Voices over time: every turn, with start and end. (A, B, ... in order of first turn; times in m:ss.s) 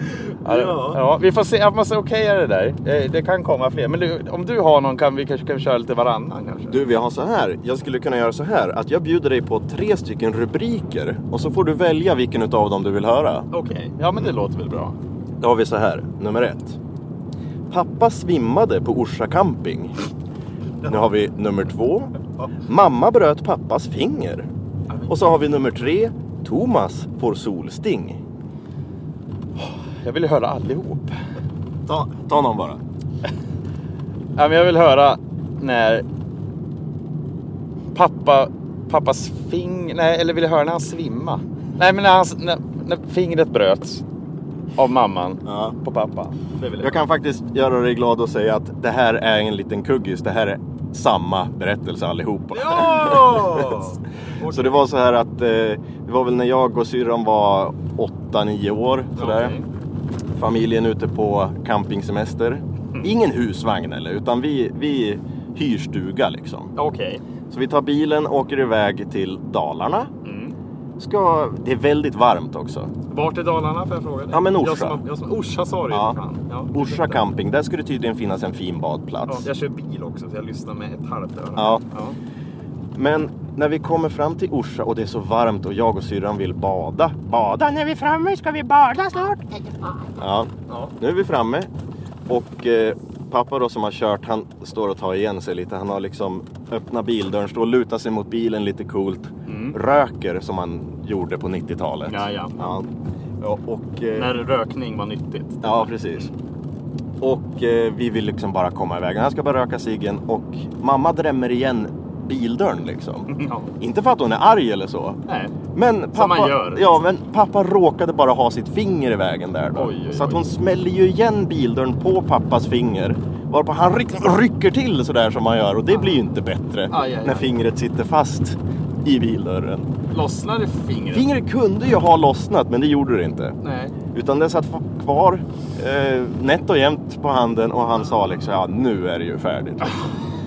0:00.4-0:06.8 A
0:00.4-0:01.0 B
0:06.7-0:13.5 B
0:13.5-0:15.0 A
0:15.4-0:16.8 B
0:17.7-0:20.0 B
0:20.8-0:24.5 B
0:24.9-0:25.2 A
0:25.1-0:28.2 B
0:29.6-0:31.2 A
0:31.8-0:32.8 B
0:34.4-0:36.0 A
0:37.9-0:44.0 A
0:44.8-0:47.0 A
0:45.4-0:45.8 B
0:46.8-0:53.9 B
0:52.5-0:54.8 A
0:54.4-0:59.6 B
0:59.2-0:59.7 A
1:00.4-1:06.7 B
1:06.7-1:07.2 A
1:07.5-1:10.1 B
1:10.2-1:10.6 A
1:11.0-1:12.9 B
1:13.1-1:17.2 A
1:14.3-1:15.0 B
1:15.9-1:16.2 B
1:16.7-1:19.5 B
1:19.2-1:22.2 A
1:21.6-1:21.8 B
1:22.9-1:29.4 B
1:30.2-1:31.7 B
1:30.7-1:30.9 A
1:32.3-1:42.9 B
1:39.5-1:39.8 A
1:42.0-1:42.7 A
1:43.4-1:44.4 B
1:44.1-1:46.3 A
1:45.6-1:46.3 B
1:47.2-1:55.2 B
1:53.3-1:53.7 A
1:55.3-1:55.5 A
1:55.7-2:09.9 B
1:56.1-1:57.0 A
1:59.7-2:00.4 A
2:05.9-2:06.2 A
2:06.9-2:07.6 A
2:10.1-2:11.3 A
2:11.1-2:13.6 B
2:13.6-2:14.0 A
2:14.1-2:20.0 B